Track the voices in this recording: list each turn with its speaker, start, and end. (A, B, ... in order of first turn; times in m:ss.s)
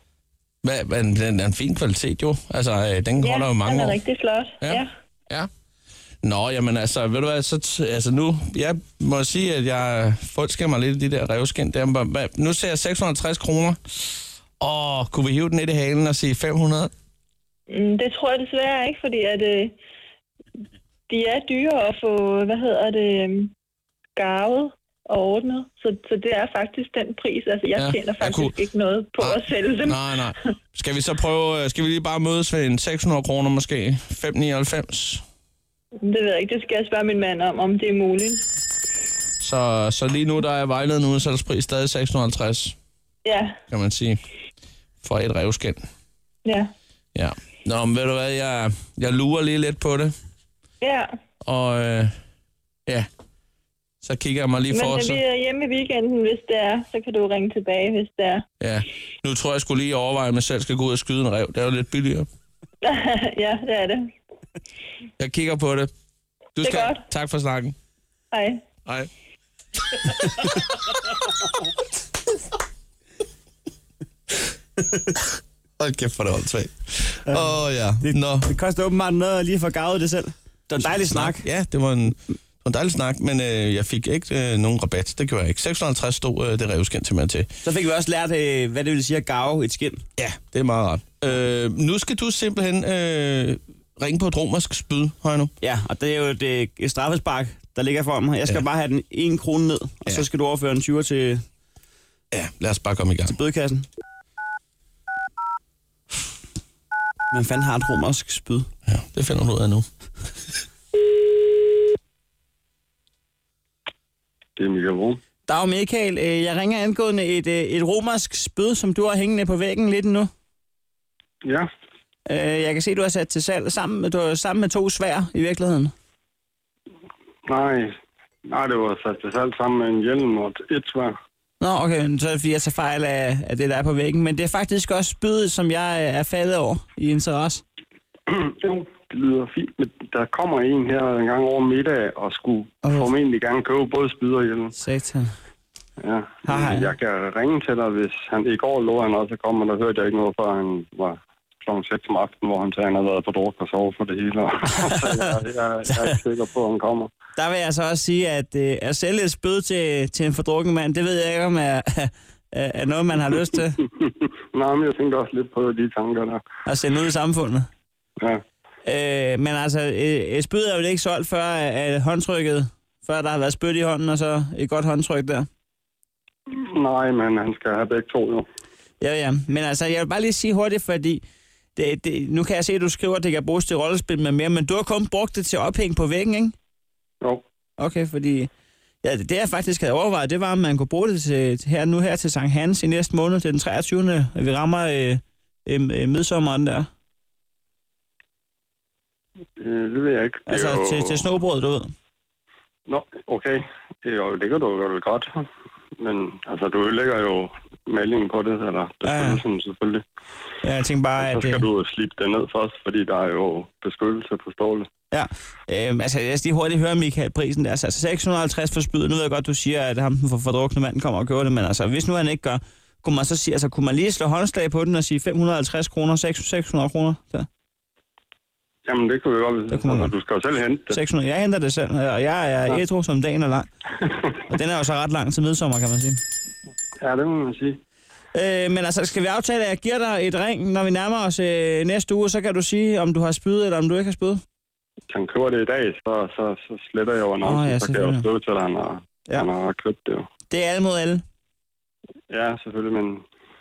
0:00.6-0:04.0 A
0:03.2-0:04.9 B
0:04.6-0:05.5 A
0:06.2-0:16.9 A
0:17.7-0:19.8 B
0:21.1-0:23.5 B
0:24.2-0:30.0 B
0:27.8-0:28.6 A
0:29.2-0:35.2 A
0:36.0-0:38.4 B
0:39.4-0:42.8 A
0:43.2-0:43.6 B
0:43.7-0:44.2 A
0:45.0-0:45.8 A
0:46.4-0:46.7 B
0:47.1-0:50.1 A
0:50.8-0:51.1 B
0:51.4-0:52.2 A
0:54.0-0:55.2 A
0:54.7-0:58.4 B
0:58.6-1:02.3 A
1:02.8-1:04.1 B
1:05.2-1:05.9 A
1:06.6-1:07.8 A
1:06.6-1:07.0 B
1:08.3-1:08.6 B
1:09.9-1:10.4 A
1:15.8-1:18.5 A
1:17.3-1:21.4 C
1:20.8-1:27.5 A
1:27.6-1:30.0 C
1:30.2-1:35.5 A
1:35.6-1:41.4 C
1:42.3-1:43.4 A
1:43.3-1:43.8 C
1:47.3-1:48.7 C
1:48.9-1:49.9 A
1:54.6-1:55.2 D
1:55.5-2:00.3 C
2:01.4-2:01.7 D
2:02.3-2:05.9 C
2:07.5-2:08.0 D
2:08.5-2:11.1 D
2:11.6-2:17.6 C
2:18.3-2:24.7 D
2:22.8-2:23.1 C
2:24.7-2:25.3 C
2:26.0-2:37.1 D
2:26.4-2:26.9 C
2:34.8-2:35.2 C
2:37.4-2:43.8 C
2:44.0-2:46.4 D
2:46.6-2:47.7 C
2:48.8-2:55.5 C
2:56.5-2:58.4 D
2:59.0-3:01.2 C
3:01.8-3:06.5 C
3:07.8-3:08.5 C
3:09.0-3:16.9 C
3:19.6-3:21.2 D
3:20.5-3:21.9 C
3:22.9-3:25.5 D
3:26.0-3:30.0 D
3:29.0-3:29.4 C
3:30.6-3:31.7 C
3:31.2-3:34.9 D
3:35.1-3:47.5 C
3:48.8-3:51.0 D
3:49.7-3:50.1 C
3:50.9-3:53.7 C
3:54.5-3:56.2 C
3:57.0-3:57.8 D
3:58.3-4:04.4 C
4:05.1-4:10.3 D
4:07.4-4:08.2 C
4:10.5-4:11.2 C
4:12.3-4:13.2 D